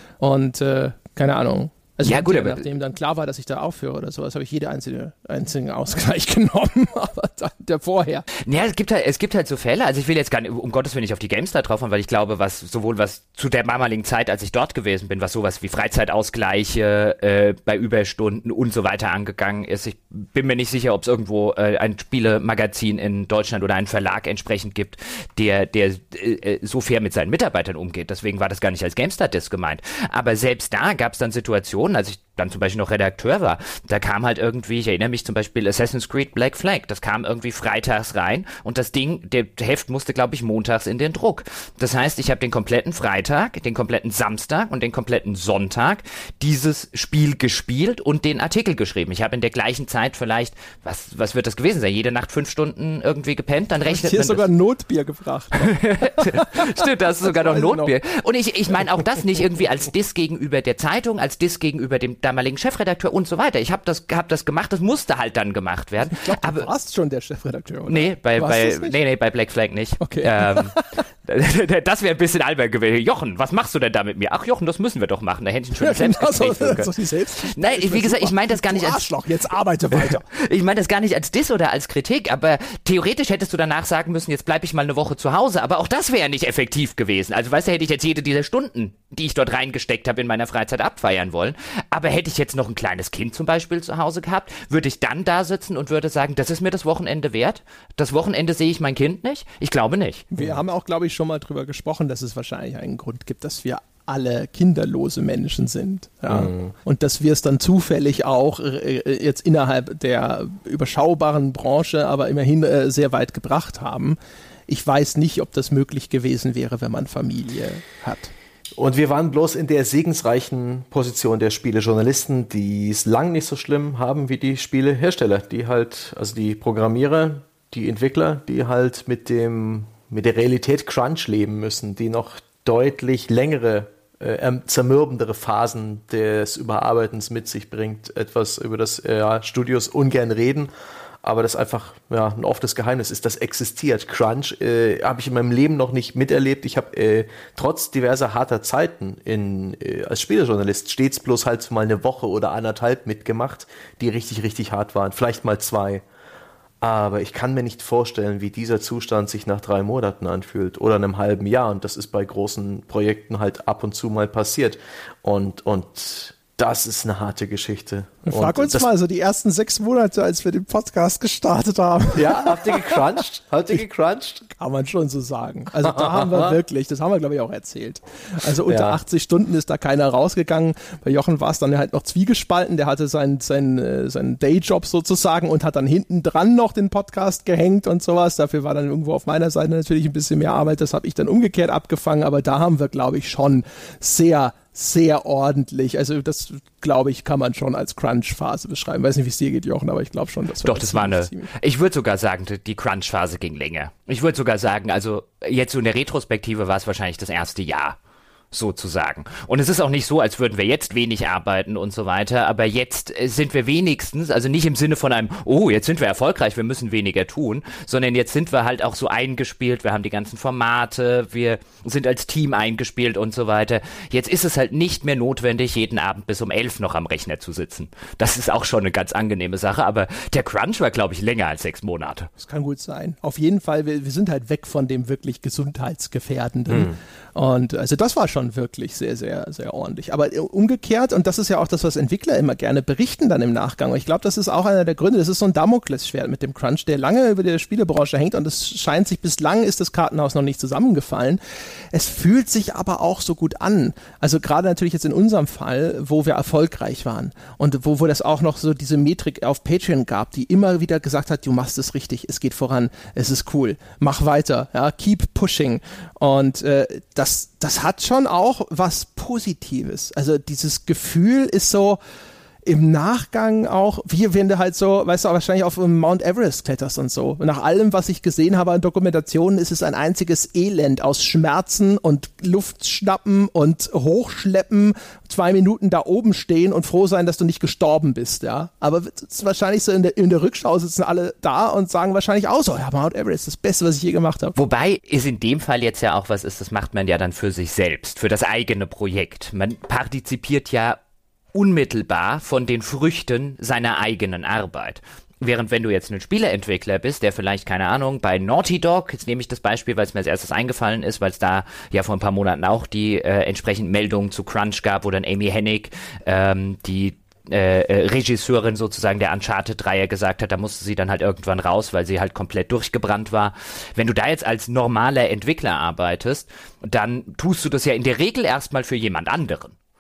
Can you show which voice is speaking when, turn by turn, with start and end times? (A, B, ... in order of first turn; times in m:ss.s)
0:00.2-0:08.3 A
0:02.1-0:02.6 B
0:08.4-0:54.5 B
0:53.9-0:57.9 A
0:55.6-1:06.7 B
1:06.1-1:09.0 A
1:07.9-1:19.2 B
1:10.0-1:11.0 A
1:15.8-1:20.2 A
1:19.9-1:40.3 B
1:40.3-1:54.2 A
1:46.3-1:46.7 C
1:54.7-1:58.3 A
1:58.8-2:20.7 C
2:21.2-2:36.0 C
2:36.8-2:48.9 C
2:48.3-2:53.0 A
2:52.2-2:54.5 C
2:54.6-3:21.5 A
2:55.8-2:56.6 C
2:58.7-2:59.0 C
3:20.6-3:28.0 B
3:28.5-3:52.3 B
3:52.4-4:11.4 A
4:11.9-4:32.0 A
4:32.6-4:54.6 A
4:54.6-5:01.0 B
5:01.5-5:29.7 B